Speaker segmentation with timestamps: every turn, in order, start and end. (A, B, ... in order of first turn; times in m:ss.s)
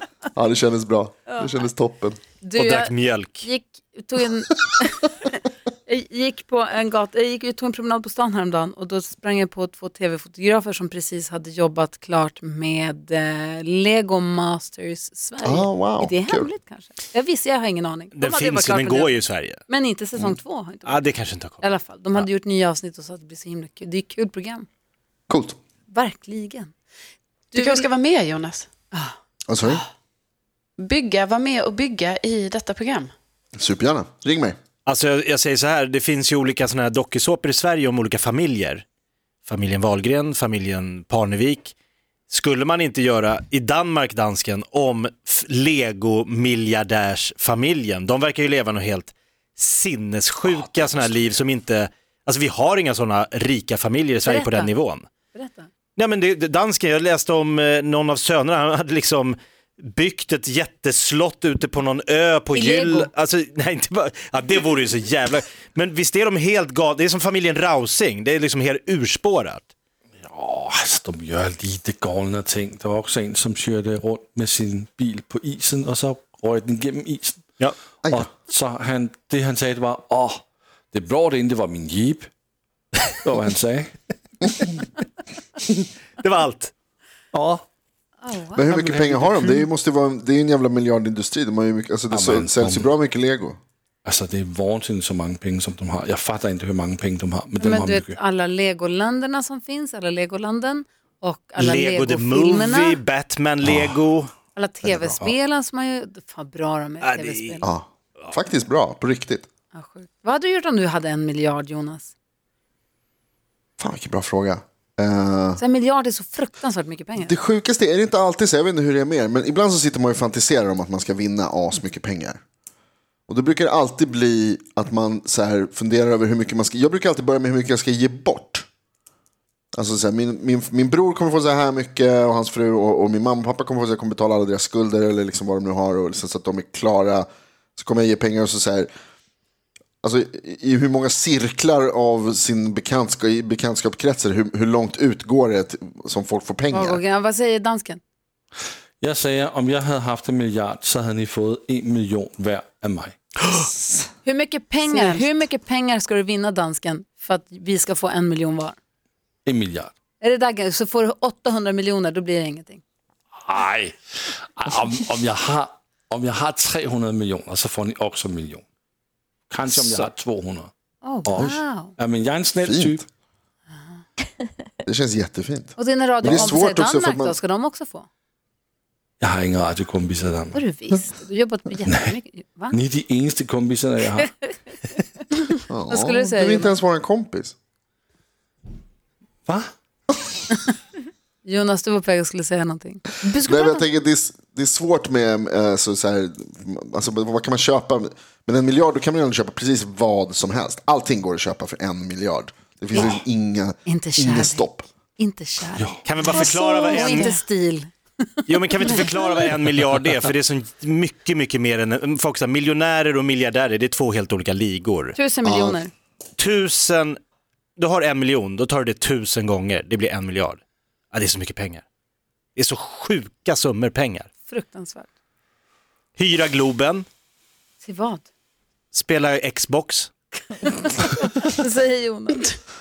0:00.4-0:02.2 A
0:02.4-0:05.1 B
0:02.6-0:03.4 C
0:05.9-0:21.0 B
0:15.4-0:16.5 A
0:18.2-0:19.6 C
0:20.9-0:22.3 C
0:21.6-0:24.7 B
0:25.3-0:25.6 A
0:25.9-0:26.7 B
0:27.5-0:28.7 D
0:27.5-0:27.9 B
0:29.5-0:29.8 A
0:30.8-0:33.1 D
0:33.6-0:34.6 A
0:34.9-0:38.8 C
0:39.4-0:41.7 C
0:42.3-0:55.0 C
0:54.2-0:54.7 B
0:55.3-0:55.7 B
0:56.0-1:09.7 C
1:02.5-1:03.1 B
1:10.2-1:17.4 E
1:18.0-1:18.3 A
1:18.1-1:22.3 E
1:23.2-1:23.9 E
1:26.2-1:26.7 C
1:27.3-1:27.6 E
1:28.2-1:28.6 B
1:28.6-1:33.6 A
1:28.6-1:29.3 E
1:32.1-1:32.9 E
1:34.0-1:38.2 E
1:37.6-1:43.0 B
1:41.6-1:44.3 C
1:44.6-1:47.7 B
1:44.8-1:45.2 A
1:47.0-1:47.5 C
1:47.6-1:49.5 A
1:49.7-1:52.1 B
1:53.8-1:55.6 A
1:55.6-1:57.4 B
1:57.2-2:02.4 A
2:03.3-2:08.7 A
2:09.8-2:18.9 A
2:20.0-2:27.0 A
2:26.7-2:28.0 B
2:29.0-2:33.2 E
2:33.6-2:34.0 A
2:34.2-2:38.8 B
2:34.8-2:35.3 D
2:39.5-2:39.9 E
2:40.2-2:42.8 B
2:43.4-2:48.6 E
2:49.5-2:50.7 E
2:49.7-2:50.1 A
2:51.0-2:51.9 B
2:51.3-2:53.0 E
2:52.6-2:53.0 A
2:54.8-2:57.4 A
2:55.8-2:58.1 B
2:59.2-3:00.6 E
3:00.5-3:02.8 B
3:01.9-3:02.1 E
3:02.7-3:04.3 E
3:05.3-3:06.8 B
3:05.7-3:07.6 A
3:11.4-3:13.8 B
3:13.3-3:24.8 A
3:23.9-3:24.6 B
3:25.2-3:27.9 B
3:25.8-3:26.0 E
3:26.0-3:27.4 C
3:26.9-3:27.4 D
3:28.5-3:35.2 C
3:35.2-3:35.9 B
3:35.4-3:35.8 A
3:36.4-3:37.2 C
3:37.8-3:40.6 C
3:41.1-3:41.8 C
3:42.6-3:44.3 C
3:44.5-3:45.1 B
3:46.2-3:47.1 C
3:47.8-3:48.2 B
3:48.9-3:50.1 C
3:50.6-3:52.5 B